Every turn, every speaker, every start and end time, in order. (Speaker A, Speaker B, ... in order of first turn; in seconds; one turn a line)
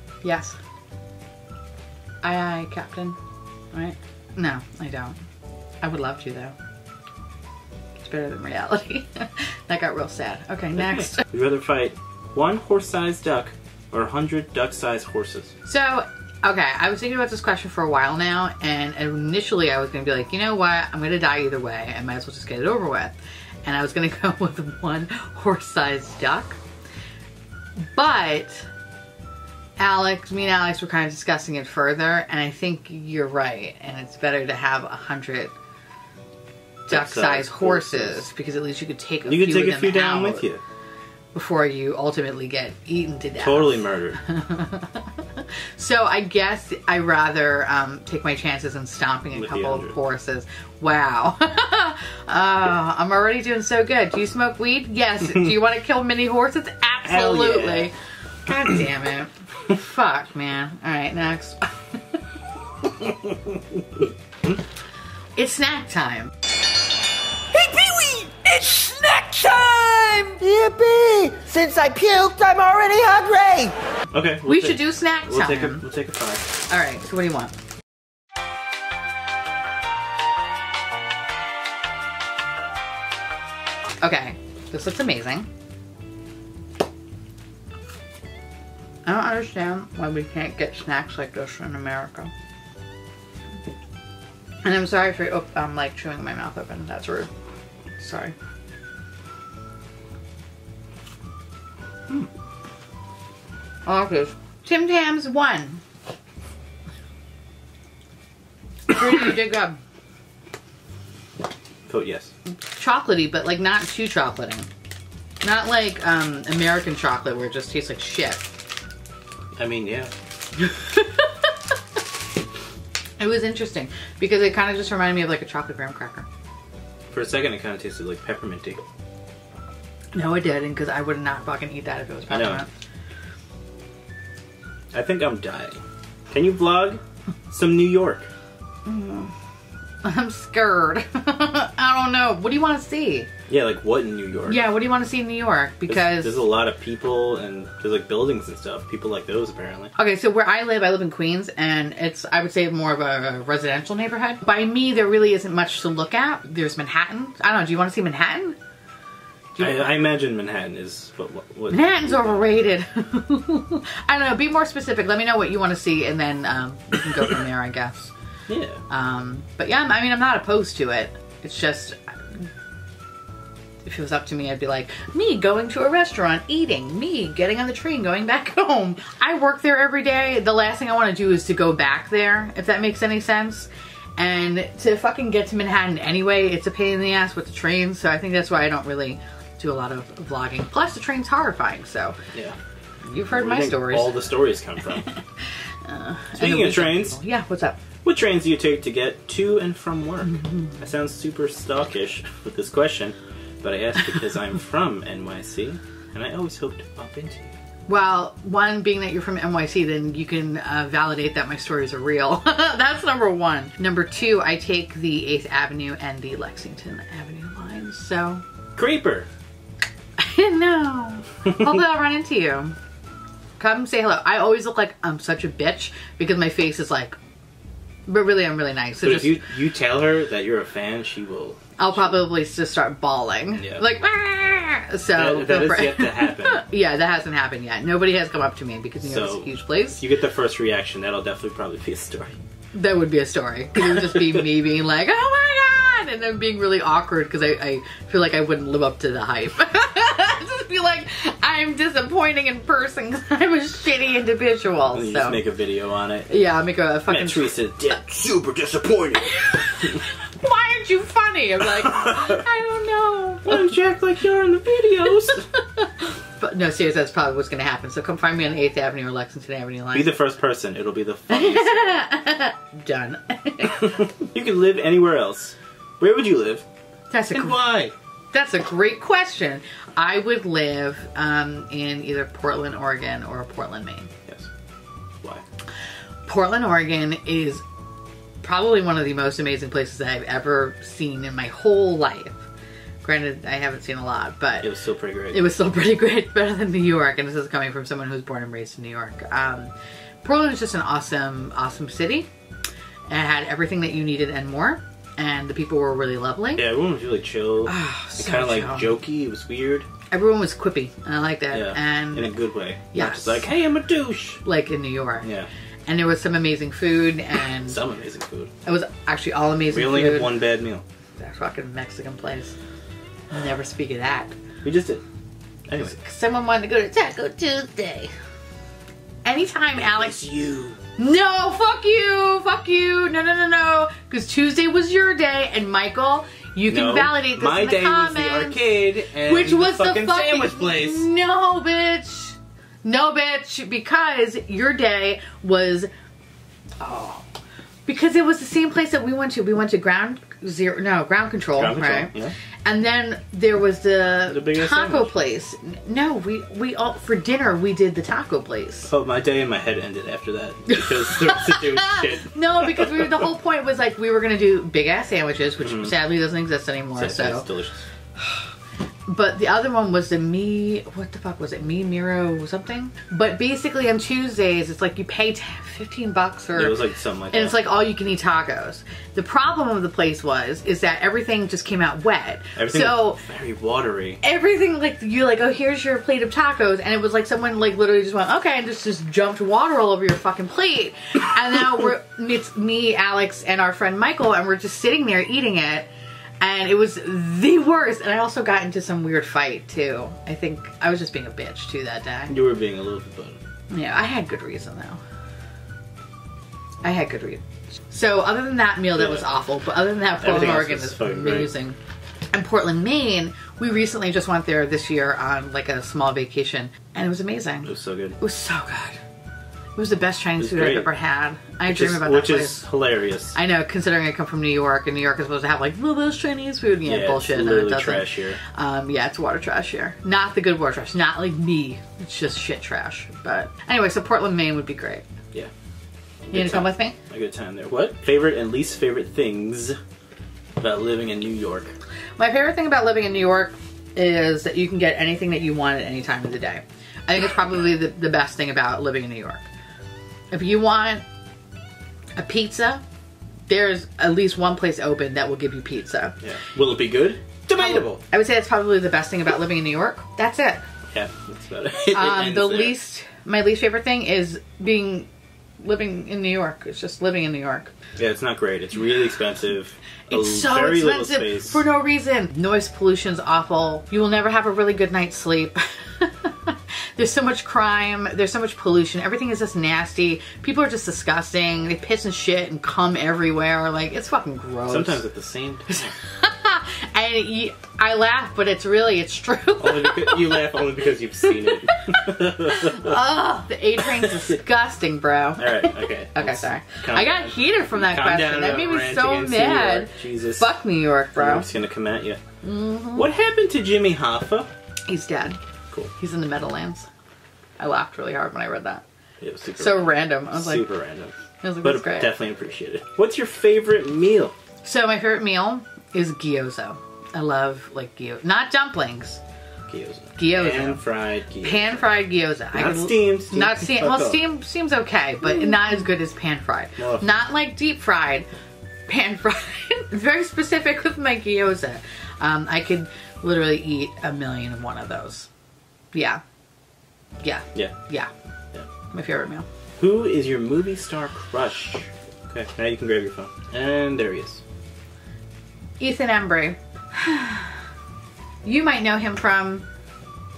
Speaker A: 0.2-0.6
Speaker A: 2.2-3.2
Speaker A: 3.7-5.2
Speaker A: 5.8-6.5
Speaker A: 8.0-11.2
Speaker B: 10.8-15.5
Speaker A: 15.6-26.6
Speaker A: 27.8-28.7
Speaker A: 29.8-35.5
Speaker B: 36.9-38.2
Speaker A: 36.9-40.4
Speaker B: 39.2-40.6
Speaker A: 41.3-57.9
Speaker B: 43.4-44.2
Speaker B: 49.3-50.0
Speaker B: 57.0-57.9
Speaker A: 58.5-61.6
Speaker B: 63.0-63.6
Speaker A: 65.3-66.3
Speaker C: 67.5-73.7
Speaker B: 74.1-76.5
Speaker A: 74.5-75.8
Speaker A: 76.7-77.5
Speaker A: 84.0-85.5
Speaker A: 89.0-92.3
Speaker A: 94.6-97.3
Speaker A: 98.0-98.3
Speaker A: 103.8-105.8
Speaker A: 108.9-109.8
Speaker B: 111.9-112.3
Speaker A: 112.8-114.7
Speaker A: 115.4-118.4
Speaker B: 119.5-120.1
Speaker A: 120.6-121.3
Speaker A: 123.2-126.3
Speaker B: 127.1-128.8
Speaker A: 130.1-132.7
Speaker B: 132.3-132.6
Speaker B: 134.9-135.8
Speaker B: 136.3-138.3
Speaker A: 138.8-139.3
Speaker A: 140.0-143.3
Speaker B: 143.5-144.7
Speaker A: 144.5-146.4
Speaker B: 145.9-149.9
Speaker A: 149.9-158.6
Speaker A: 159.6-159.9
Speaker B: 159.6-162.4
Speaker A: 161.7-168.1
Speaker B: 168.5-168.8
Speaker A: 168.9-172.5
Speaker A: 173.8-192.2
Speaker A: 193.1-194.2
Speaker B: 193.3-195.1
Speaker A: 195.8-197.8
Speaker B: 196.3-197.2
Speaker B: 198.0-207.5
Speaker A: 207.9-218.4
Speaker B: 218.8-219.3
Speaker A: 220.2-222.8
Speaker A: 223.6-227.2
Speaker A: 228.1-229.4
Speaker B: 229.0-232.2
Speaker A: 231.8-240.0
Speaker B: 233.6-233.9
Speaker B: 235.1-236.6
Speaker B: 239.0-242.3
Speaker A: 242.7-255.4
Speaker B: 254.9-256.3
Speaker A: 256.3-257.6
Speaker B: 257.1-260.0
Speaker A: 259.2-263.7
Speaker B: 263.4-265.4
Speaker A: 265.5-270.1
Speaker B: 269.9-272.1
Speaker A: 271.3-274.1
Speaker B: 274.2-276.6
Speaker A: 277.1-277.6
Speaker B: 277.3-277.9
Speaker A: 278.3-284.1
Speaker A: 286.3-287.6
Speaker A: 288.4-292.4
Speaker A: 293.0-294.7
Speaker B: 294.6-295.5
Speaker A: 295.3-302.3
Speaker A: 303.1-306.6
Speaker B: 306.6-309.9
Speaker A: 307.6-308.9
Speaker A: 310.1-312.4
Speaker B: 311.5-314.4
Speaker A: 312.9-313.5
Speaker A: 314.4-315.3
Speaker B: 315.2-315.5
Speaker A: 315.9-317.8
Speaker B: 317.7-318.5
Speaker A: 318.6-320.4
Speaker B: 319.7-320.8
Speaker A: 321.2-322.5
Speaker A: 323.3-324.3
Speaker B: 324.6-325.0
Speaker B: 325.7-325.9
Speaker A: 325.8-328.1
Speaker A: 329.2-330.2
Speaker B: 329.8-330.8
Speaker A: 330.8-338.7
Speaker B: 336.7-341.1
Speaker A: 339.2-345.9
Speaker A: 346.8-347.2
Speaker A: 347.9-352.1
Speaker B: 351.6-352.3
Speaker A: 352.6-358.9
Speaker B: 354.3-355.1
Speaker B: 358.9-363.2
Speaker A: 360.7-367.4
Speaker B: 365.6-365.9
Speaker B: 366.9-367.8
Speaker A: 369.1-376.8
Speaker B: 376.5-377.6
Speaker A: 377.3-383.2
Speaker B: 382.6-384.2
Speaker A: 384.2-395.9
Speaker A: 396.4-402.4
Speaker B: 402.3-403.4
Speaker A: 403.7-405.0
Speaker A: 406.8-411.8
Speaker B: 409.0-409.2
Speaker B: 410.2-411.5
Speaker A: 412.3-419.0
Speaker B: 417.6-418.2
Speaker A: 419.8-422.6
Speaker B: 420.4-420.9
Speaker B: 421.6-423.4
Speaker A: 423.3-435.0
Speaker B: 426.8-428.4
Speaker A: 436.3-436.9
Speaker B: 436.3-439.8
Speaker B: 440.6-441.7
Speaker A: 442.2-449.5
Speaker A: 450.3-451.0
Speaker A: 452.1-452.8
Speaker A: 453.5-456.1
Speaker B: 456.2-458.0
Speaker A: 457.5-460.6
Speaker B: 460.9-462.8
Speaker A: 461.9-465.1
Speaker A: 465.6-467.7
Speaker B: 468.0-471.6
Speaker A: 470.1-485.0
Speaker B: 484.7-485.9
Speaker A: 486.0-490.6
Speaker B: 489.6-493.0
Speaker A: 491.5-501.5
Speaker B: 494.0-494.3
Speaker B: 495.4-500.6
Speaker B: 501.1-502.2
Speaker A: 502.4-503.1
Speaker B: 502.9-504.5
Speaker A: 504.9-505.4
Speaker A: 505.9-506.9
Speaker A: 507.6-508.8
Speaker B: 509.2-514.3
Speaker A: 509.6-510.6
Speaker A: 511.4-512.1
Speaker A: 514.6-519.2
Speaker B: 519.7-521.8
Speaker A: 520.1-520.8
Speaker A: 521.4-528.3
Speaker B: 522.5-524.2
Speaker B: 526.8-527.1
Speaker A: 528.9-535.3
Speaker A: 535.9-536.2
Speaker A: 537.2-538.1
Speaker A: 538.9-539.5
Speaker B: 539.8-544.4
Speaker A: 545.8-547.6
Speaker A: 548.4-549.6